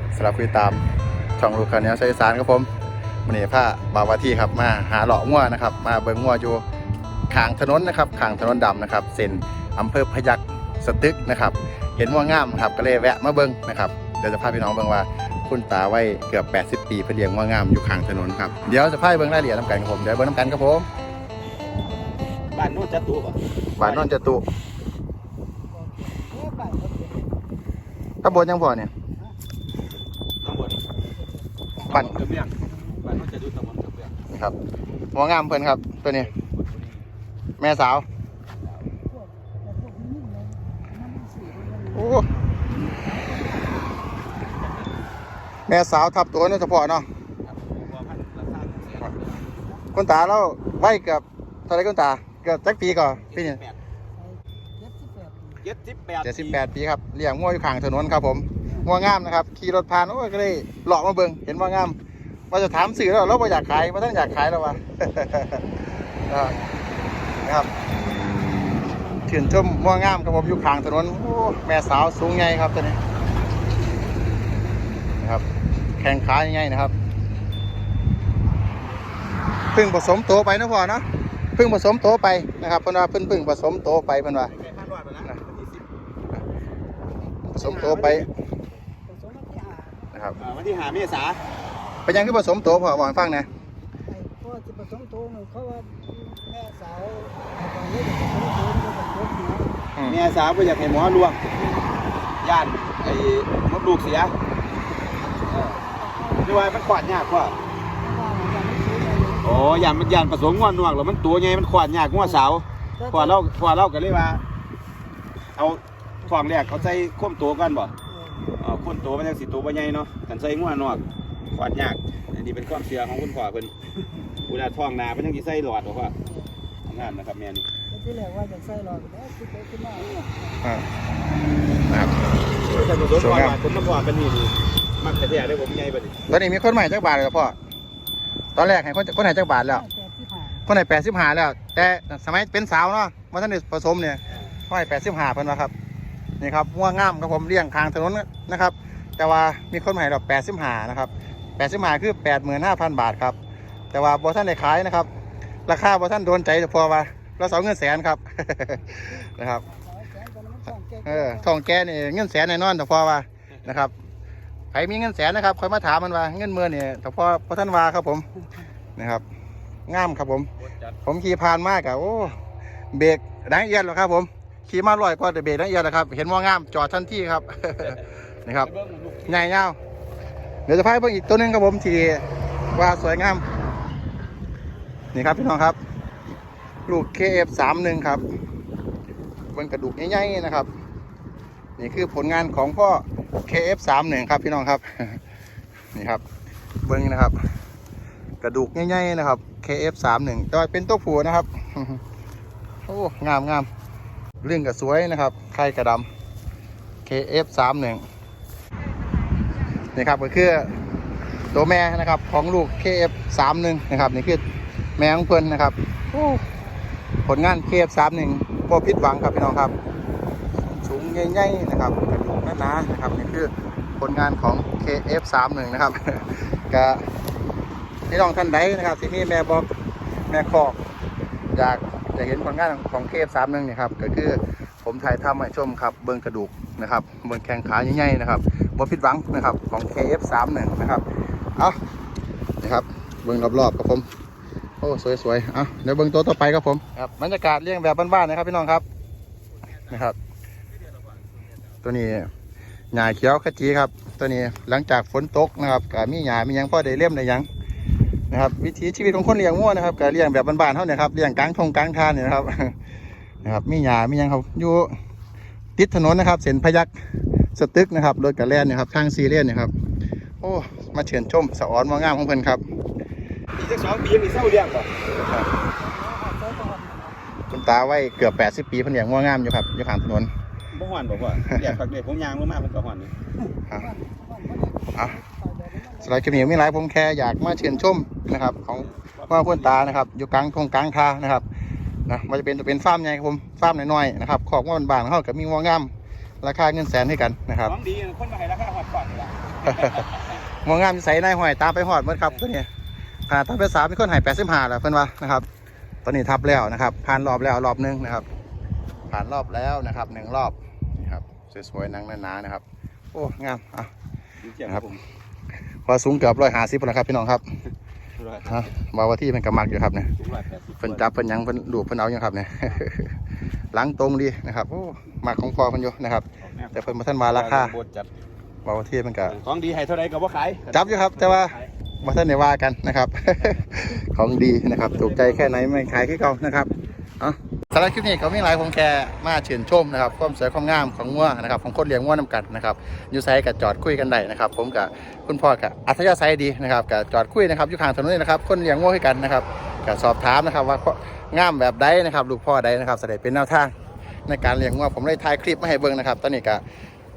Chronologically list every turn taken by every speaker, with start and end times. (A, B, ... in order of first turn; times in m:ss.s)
0:00.1-0:00.8 A
0:01.4-0:02.7 A
0:03.2-0:06.6 A
0:07.3-0:20.9 A
0:21.7-0:22.3 B
0:22.5-0:24.2 C
0:23.8-0:24.4 A
0:25.7-0:27.4 B
0:28.2-0:28.9 A
0:30.4-0:30.8 C
0:30.9-0:31.5 B
0:31.8-0:34.1 C
0:32.6-0:33.1 B
0:35.1-0:36.3 A
0:36.1-0:37.0 C
0:37.6-0:38.0 A
0:39.1-0:44.3 B
0:41.9-0:42.3 A
0:44.4-0:45.0 C
0:45.7-0:47.1 A
0:47.4-0:49.6 C
0:49.9-0:53.6 A
0:52.8-0:53.8 C
0:54.2-0:55.6 B
0:55.6-0:56.6 C
0:56.2-1:02.0 A
1:02.5-1:06.6 A
1:07.4-1:07.7 A
1:09.3-1:13.0 A
1:16.0-1:16.9 A
1:19.7-1:24.5 A
1:24.4-1:25.8 C
1:27.5-1:28.2 A
1:27.5-1:28.3 C
1:29.1-1:30.1 B
1:30.1-1:30.4 A
1:30.4-1:31.4 C
1:32.0-1:33.5 A
1:34.1-1:39.8 B
1:40.0-1:41.5 C
1:42.4-1:44.4 C
1:45.3-1:46.7 B
1:45.4-1:45.8 C
1:46.4-1:47.6 C
1:48.0-1:50.1 B
1:49.4-1:54.4 C
1:53.0-1:53.4 B
1:55.5-1:57.9 C
1:56.2-1:56.7 B
1:58.1-1:58.5 B
1:58.5-2:03.8 C
2:04.5-2:06.1 C
2:06.2-2:06.6 B
2:06.8-2:07.7 C
2:07.9-2:10.6 B
2:11.9-2:12.1 A
2:12.6-2:16.2 C
2:13.2-2:13.6 A
2:16.3-2:17.6 A
2:18.6-2:19.8 A
2:19.6-2:20.6 B
2:20.6-2:25.7 A
2:26.4-2:33.4 A
2:33.9-2:35.1 A
2:35.7-2:39.6 A
2:39.0-2:41.5 B
2:41.0-2:43.9 A
2:44.7-2:48.3 A
2:49.0-2:49.2 A
2:49.9-2:50.5 A
2:50.6-2:51.0 C
2:51.0-2:52.4 A
2:52.9-2:58.7 A
2:58.6-2:59.5 C
2:59.3-2:59.8 A
3:00.7-3:03.4 A
3:05.1-3:05.8 A
3:06.9-3:08.2 A
3:09.5-3:10.7 A
3:11.8-3:15.2 A
3:15.9-3:16.2 A
3:16.8-3:17.4 A
3:18.4-3:22.0 A
3:22.9-3:23.7 A
3:24.4-3:26.1 A
3:27.0-3:28.0 A
3:29.8-3:30.7 A
3:31.5-3:34.4 A
3:35.0-3:36.4 A
3:37.2-3:39.7 A
3:40.6-3:47.1 A
3:48.1-3:49.7 A
3:50.3-3:50.8 A
3:51.5-4:01.0 A
4:02.6-4:04.1 A
4:04.8-4:08.8 A
4:09.9-4:10.2 A
4:10.8-4:11.3 C
4:11.8-4:12.3 A
4:12.9-4:17.5 A
4:18.3-4:22.8 A
4:23.4-4:24.9 A
4:25.8-4:26.9 A
4:27.5-4:29.7 A
4:30.4-4:32.6 A
4:33.6-4:34.9 C
4:35.4-4:37.2 B
4:37.5-4:40.3 A
4:40.7-4:43.1 C
4:43.5-4:46.7 B
4:46.0-4:51.4 A
4:48.8-4:50.0 C
4:52.1-4:57.7 A
4:57.6-5:00.4 C
5:00.6-5:02.7 A
5:03.3-5:05.4 A
5:06.0-5:08.2 A
5:09.1-5:13.9 A
5:14.4-5:15.0 C
5:15.8-5:17.4 A
5:18.2-5:18.6 C
5:18.5-5:20.1 A
5:20.1-5:21.1 C
5:20.8-5:23.1 A
5:23.7-5:27.7 A
5:26.4-5:28.1 C
5:28.6-5:29.4 A
5:29.3-5:31.7 C
5:30.7-5:53.7 A
5:34.9-5:36.3 C
5:54.3-5:56.6 A